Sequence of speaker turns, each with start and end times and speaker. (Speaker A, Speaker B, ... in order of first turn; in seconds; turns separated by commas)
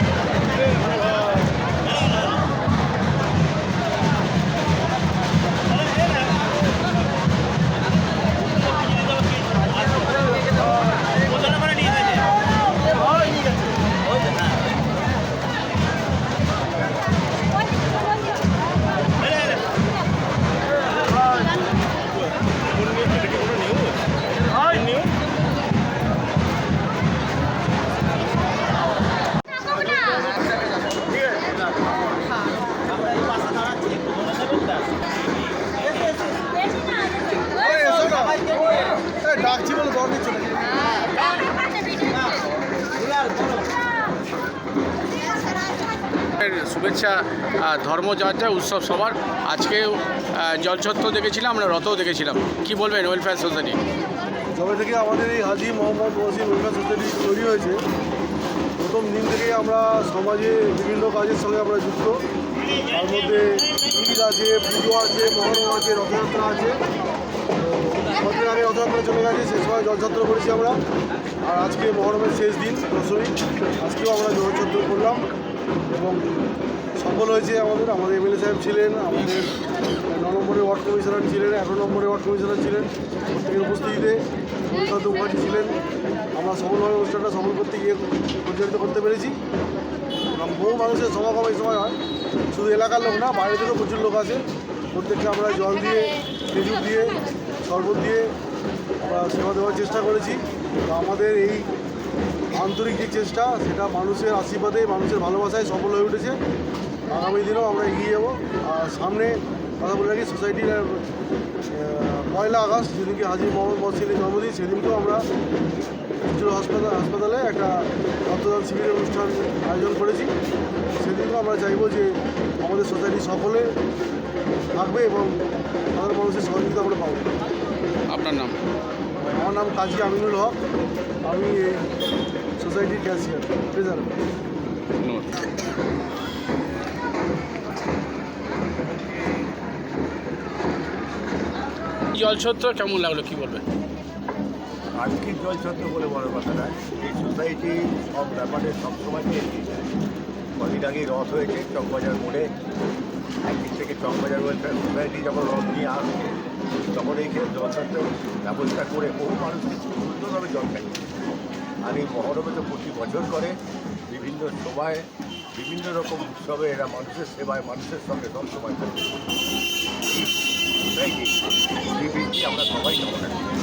Speaker A: 37.6-38.6, Speaker A: 39.2-40.8, Speaker B: 46.4-53.8, Speaker A: 54.5-57.8, Speaker A: 58.8-62.2, Speaker A: 62.9-66.8, Speaker A: 67.5-70.8, Speaker A: 71.4-75.3, Speaker A: 75.9-76.4, Speaker A: 77.0-85.8, Speaker A: 86.3-89.4, Speaker A: 90.3-92.0, Speaker A: 92.5-98.3, Speaker A: 99.0-101.7, Speaker A: 102.5-106.4, Speaker A: 107.1-111.1, Speaker A: 111.7-115.2, Speaker A: 116.2-120.3, Speaker A: 120.9-123.7, Speaker A: 124.7-127.3, Speaker B: 128.1-128.6, Speaker A: 129.3-130.6, Speaker A: 131.2-131.9, Speaker A: 132.6-134.2, Speaker B: 135.0-135.4, Speaker B: 142.1-143.6, Speaker C: 144.9-149.7, Speaker C: 150.6-152.5, Speaker C: 153.4-156.3, Speaker C: 156.9-161.0, Speaker C: 161.8-163.6, Speaker C: 164.1-165.0, Speaker C: 165.6-169.1, Speaker C: 170.9-171.3, Speaker C: 171.9-173.4